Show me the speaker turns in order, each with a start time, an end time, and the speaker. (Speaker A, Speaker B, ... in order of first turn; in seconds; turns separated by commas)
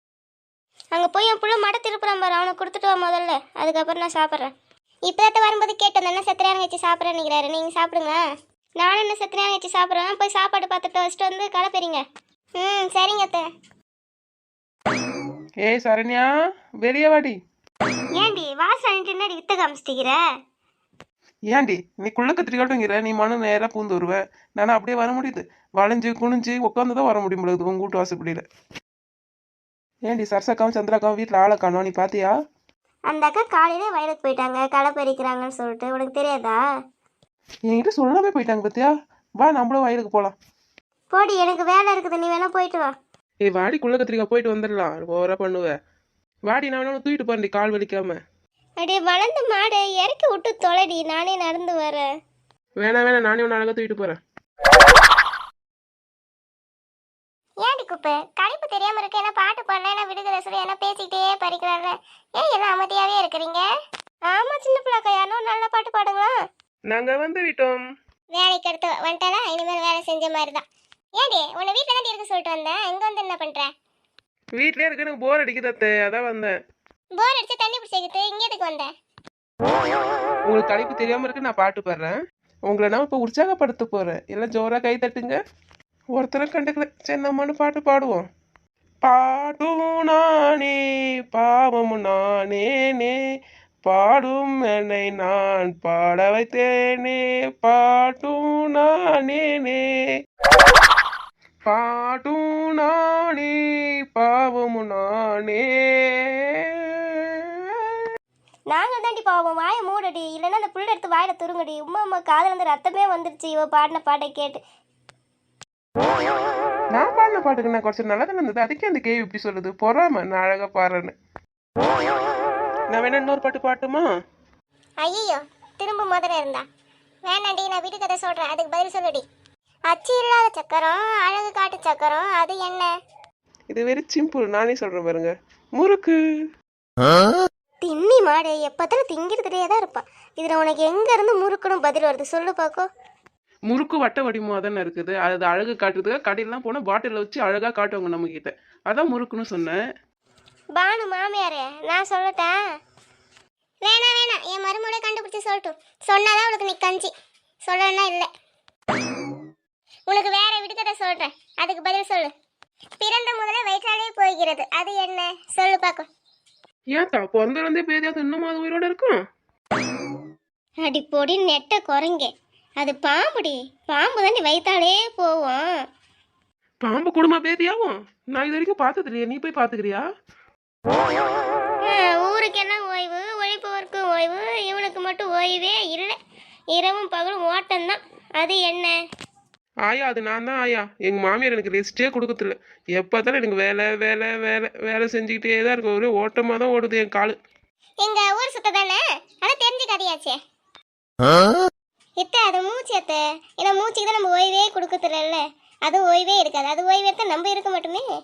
Speaker A: 0.9-4.5, Speaker A: 5.1-8.3, Speaker A: 8.8-12.0, Speaker A: 12.6-13.5, Speaker B: 15.6-16.3, Speaker B: 16.8-17.4, Speaker A: 18.1-20.2, Speaker B: 21.5-28.4, Speaker B: 30.1-32.3, Speaker A: 33.1-36.6, Speaker B: 37.7-40.4, Speaker A: 41.1-43.0, Speaker B: 43.5-45.8, Speaker B: 46.5-48.2, Speaker A: 48.8-52.1, Speaker B: 52.8-54.2, Speaker A: 57.6-63.7, Speaker A: 64.3-66.4, Speaker B: 66.9-67.8, Speaker A: 68.3-70.6, Speaker A: 71.2-73.7, Speaker B: 74.6-76.5, Speaker A: 77.2-78.9, Speaker B: 80.5-85.4, Speaker B: 86.2-88.3, Speaker B: 89.0-90.8, Speaker B: 91.3-93.2, Speaker B: 93.8-100.1, Speaker B: 101.7-103.5, Speaker B: 104.1-108.1, Speaker A: 108.7-114.6, Speaker B: 116.9-121.1, Speaker B: 122.9-124.1, Speaker A: 125.0-126.7, Speaker A: 127.2-129.2, Speaker A: 129.9-132.9, Speaker B: 133.7-136.2, Speaker A: 137.8-142.9, Speaker B: 143.7-149.8, Speaker A: 150.8-152.6, Speaker A: 153.8-157.1, Speaker A: 157.7-158.3, Speaker A: 160.1-162.3, Speaker A: 163.0-166.1, Speaker B: 167.0-169.2, Speaker A: 170.8-175.8, Speaker B: 176.8-180.0, Speaker A: 181.8-186.2, Speaker A: 186.7-189.0, Speaker B: 189.9-197.4, Speaker A: 198.0-200.4, Speaker A: 202.2-208.1